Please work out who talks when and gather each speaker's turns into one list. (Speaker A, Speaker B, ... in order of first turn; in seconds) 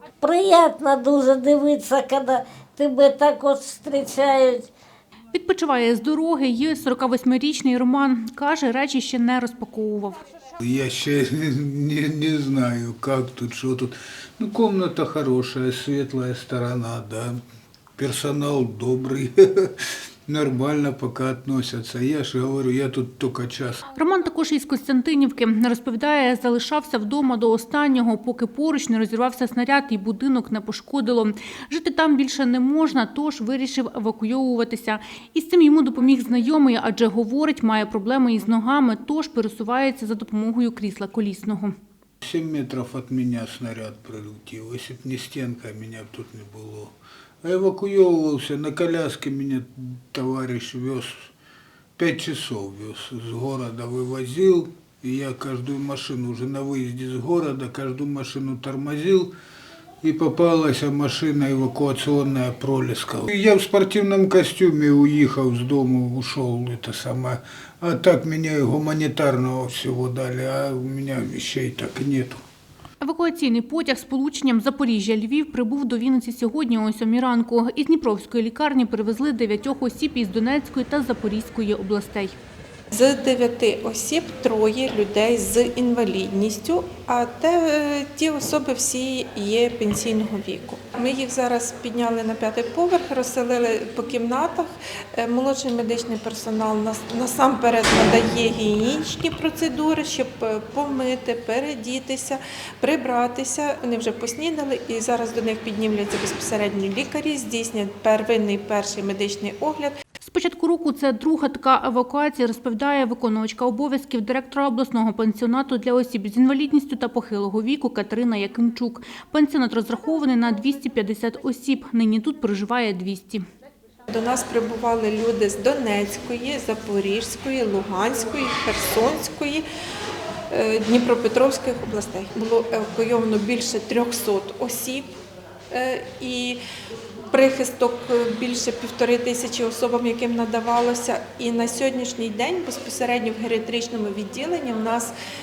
Speaker A: 0.2-4.7
Speaker B: 5.3-10.2, 23.9-41.7, 73.0-82.3, 110.2-123.4
Speaker C: 10.6-17.4, 18.0-23.8, 42.2-51.3, 52.0-59.3, 60.0-72.4
Speaker D: 82.9-109.9, 124.1-129.6, 130.5-135.1, 135.7-136.6, 137.3-145.1